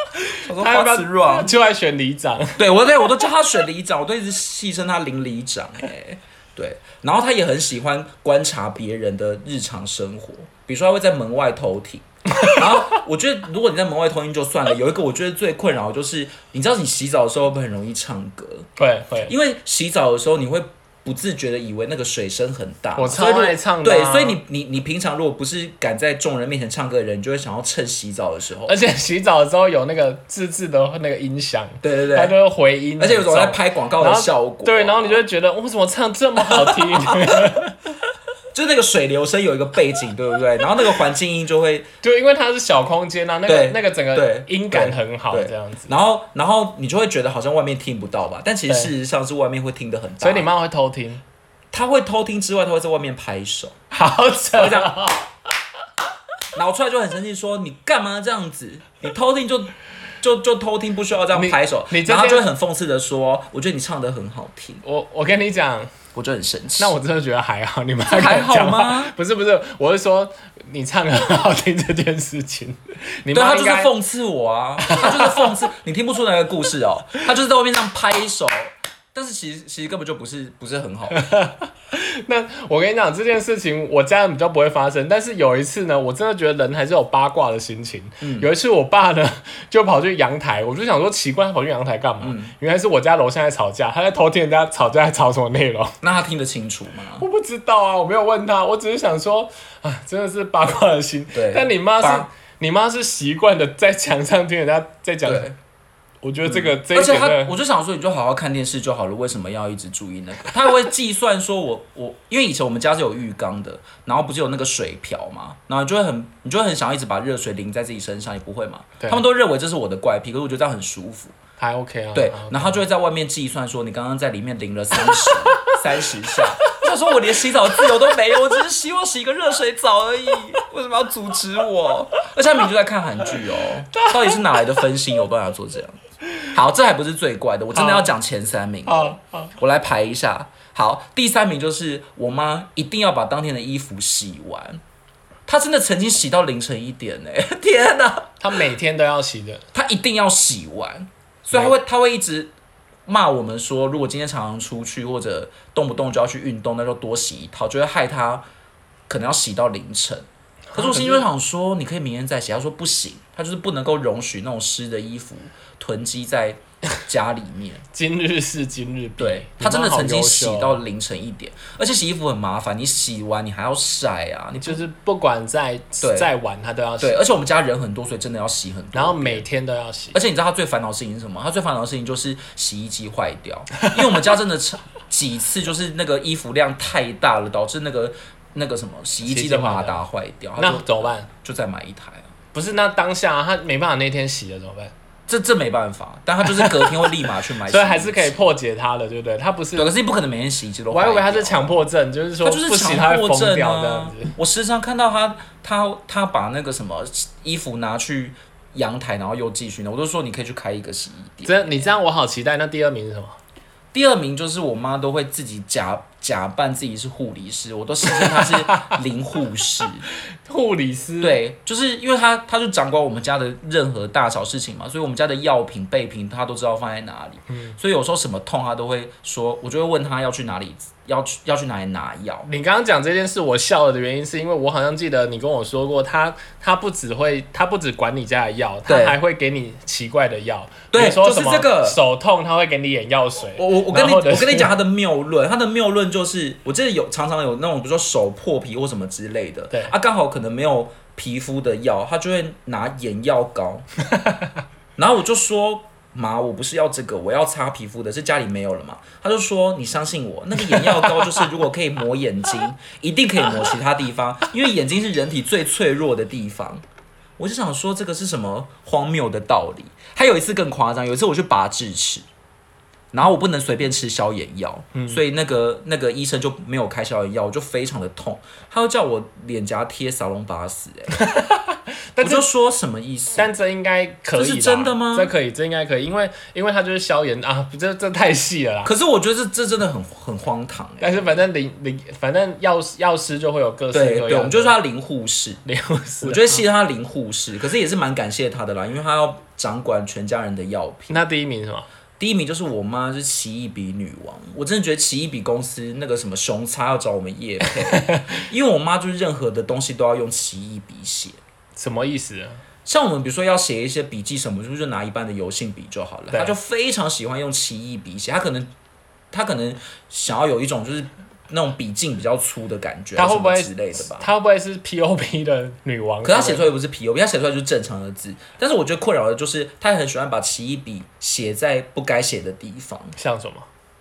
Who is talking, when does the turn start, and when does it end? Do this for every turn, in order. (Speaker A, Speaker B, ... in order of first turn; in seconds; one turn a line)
Speaker A: 0.3-2.6
Speaker B: 0.4-1.5
Speaker B: 2.6-18.7
Speaker A: 12.3-12.6
Speaker A: 18.8-19.3
Speaker B: 19.2-28.8
Speaker A: 23.0-24.4
Speaker A: 28.7-37.8
Speaker B: 31.8-32.4
Speaker B: 33.0-35.2
Speaker B: 36.4-37.5
Speaker B: 38.5-41.9
Speaker A: 42.0-45.9
Speaker B: 43.5-50.5
Speaker A: 50.2-51.2
Speaker B: 51.7-53.8
Speaker A: 53.9-55.3
Speaker B: 54.5-55.0
Speaker B: 56.5-64.8
Speaker A: 61.3-62.5
Speaker A: 64.8-65.9
Speaker B: 66.1-67.0
Speaker A: 66.8-73.9
Speaker B: 68.1-69.1
Speaker B: 73.3-81.2
Speaker A: 74.8-75.5
Speaker A: 81.1-96.0
Speaker B: 88.2-88.5
Speaker B: 92.2-92.5
Speaker B: 96.0-97.2
Speaker A: 97.2-105.5
Speaker B: 101.3-102.3
Speaker B: 105.2-105.6
Speaker A: 106.2-107.5
Speaker B: 106.5-121.3
Speaker A: 121.6-122.8
Speaker B: 122.1-144.8
Speaker A: 125.0-125.8
Speaker A: 133.9-134.8
Speaker A: 137.7-138.1
Speaker A: 138.9-139.6
Speaker B: 145.5-148.4
Speaker A: 148.4-149.7
Speaker B: 149.7-152.5
Speaker B: 153.1-158.4
Speaker B: 159.1-167.8
Speaker A: 160.7-161.2
Speaker A: 167.9-170.8
Speaker B: 169.2-174.8
Speaker A: 174.6-177.2
Speaker B: 176.0-176.3
Speaker B: 177.0-179.4
Speaker A: 178.9-180.2
Speaker B: 180.1-192.3
Speaker A: 189.2-190.0
Speaker A: 190.6-191.3
Speaker A: 192.5-194.9
Speaker B: 195.3-198.5
Speaker A: 196.6-196.9
Speaker A: 197.7-199.9
Speaker B: 199.8-201.8
Speaker A: 200.9-204.3
Speaker B: 202.4-211.9
Speaker A: 211.4-213.4
Speaker B: 213.9-220.1
Speaker A: 218.2-219.0
Speaker A: 220.4-221.4
Speaker B: 221.2-232.5
Speaker A: 227.5-227.8
Speaker A: 232.5-244.7
Speaker B: 238.9-239.2
Speaker B: 240.9-242.0
Speaker B: 243.6-253.9
Speaker A: 254.1-254.5
Speaker B: 255.0-266.8
Speaker A: 260.7-261.4
Speaker B: 267.4-272.3
Speaker B: 273.1-281.2
Speaker A: 274.9-275.2
Speaker A: 281.1-282.5
Speaker B: 282.2-283.5
Speaker A: 283.4-288.9
Speaker B: 284.3-285.3
Speaker B: 288.8-291.3
Speaker A: 291.0-294.8
Speaker B: 293.9-295.6
Speaker A: 295.7-296.6
Speaker B: 296.2-301.2
Speaker A: 301.1-301.9
Speaker B: 302.2-311.4
Speaker A: 307.7-308.4
Speaker A: 311.8-312.6
Speaker B: 312.9-318.7
Speaker B: 319.3-324.3
Speaker A: 323.2-326.7
Speaker B: 326.2-333.1
Speaker A: 333.2-333.7